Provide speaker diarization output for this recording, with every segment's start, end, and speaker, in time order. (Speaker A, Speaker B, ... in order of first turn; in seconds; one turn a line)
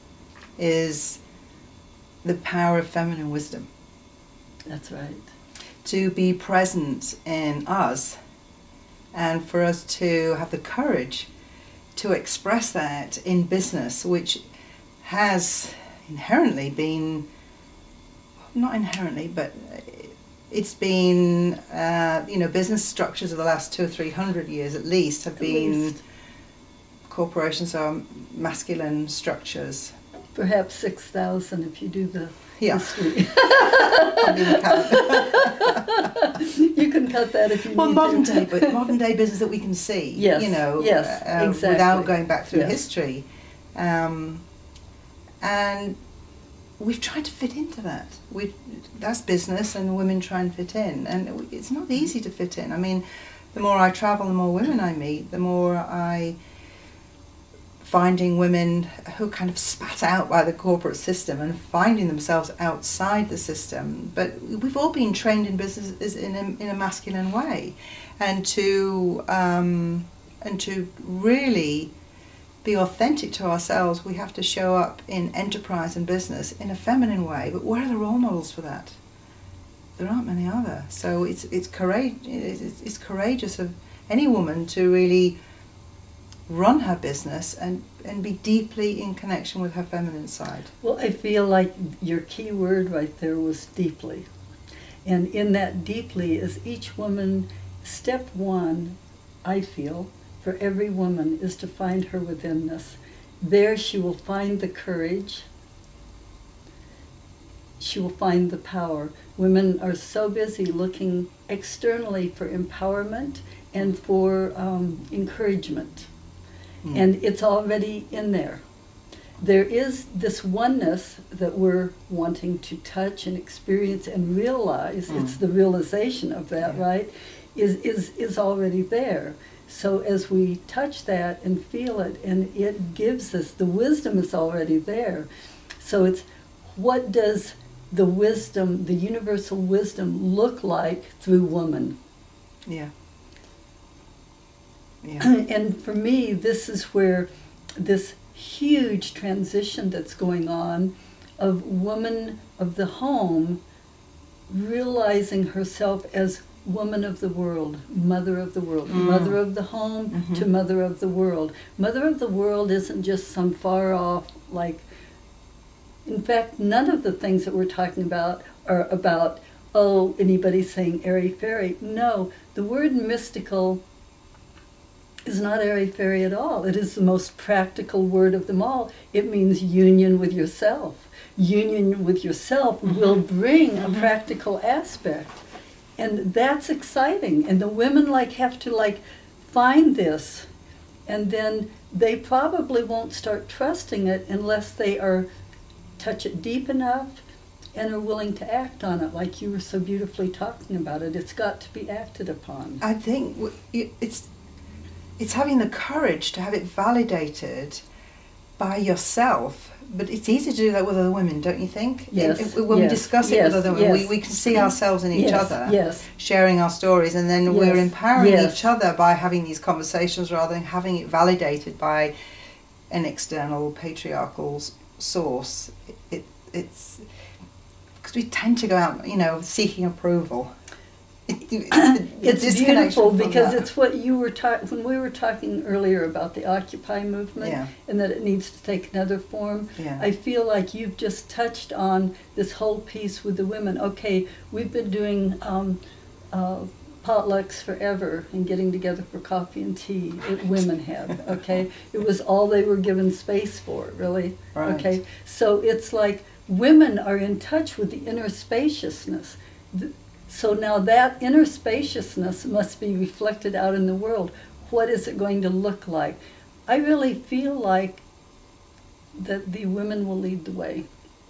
Speaker A: 0.6-1.2
Speaker A: 2.2-3.7
Speaker B: 4.7-5.3
Speaker A: 5.8-8.2
Speaker A: 9.1-11.3
Speaker A: 11.9-14.4
Speaker A: 15.0-17.2
Speaker A: 18.5-26.0
Speaker B: 25.4-26.0
Speaker A: 27.1-29.9
Speaker B: 30.3-38.9
Speaker A: 32.6-36.1
Speaker A: 37.7-44.4
Speaker B: 40.1-42.8
Speaker A: 45.4-46.0
Speaker A: 46.8-53.0
Speaker A: 53.5-56.4
Speaker A: 57.8-71.9
Speaker A: 72.6-79.0
Speaker A: 80.0-85.4
Speaker A: 86.5-90.7
Speaker B: 90.8-94.3
Speaker B: 95.0-105.5
Speaker B: 107.8-116.1
Speaker A: 116.8-117.1
Speaker B: 116.9-118.6
Speaker B: 119.4-135.3
Speaker A: 125.1-125.4
Speaker B: 135.8-141.9
Speaker B: 145.2-153.6
Speaker B: 154.5-164.8
Speaker A: 158.9-159.4
Speaker A: 160.1-160.4
Speaker B: 166.1-173.8
Speaker B: 175.2-185.4
Speaker B: 186.0-190.5
Speaker B: 191.1-195.3
Speaker B: 196.0-197.2
Speaker B: 197.7-202.8
Speaker A: 202.8-204.3
Speaker A: 205.2-207.8
Speaker A: 208.6-222.1
Speaker B: 212.1-216.1
Speaker B: 217.5-218.7
Speaker A: 222.9-227.0
Speaker A: 228.0-230.5
Speaker A: 231.3-233.6
Speaker B: 231.7-245.8
Speaker A: 237.4-237.7
Speaker A: 239.8-240.0
Speaker B: 246.3-268.0
Speaker A: 254.5-254.9
Speaker B: 269.1-270.9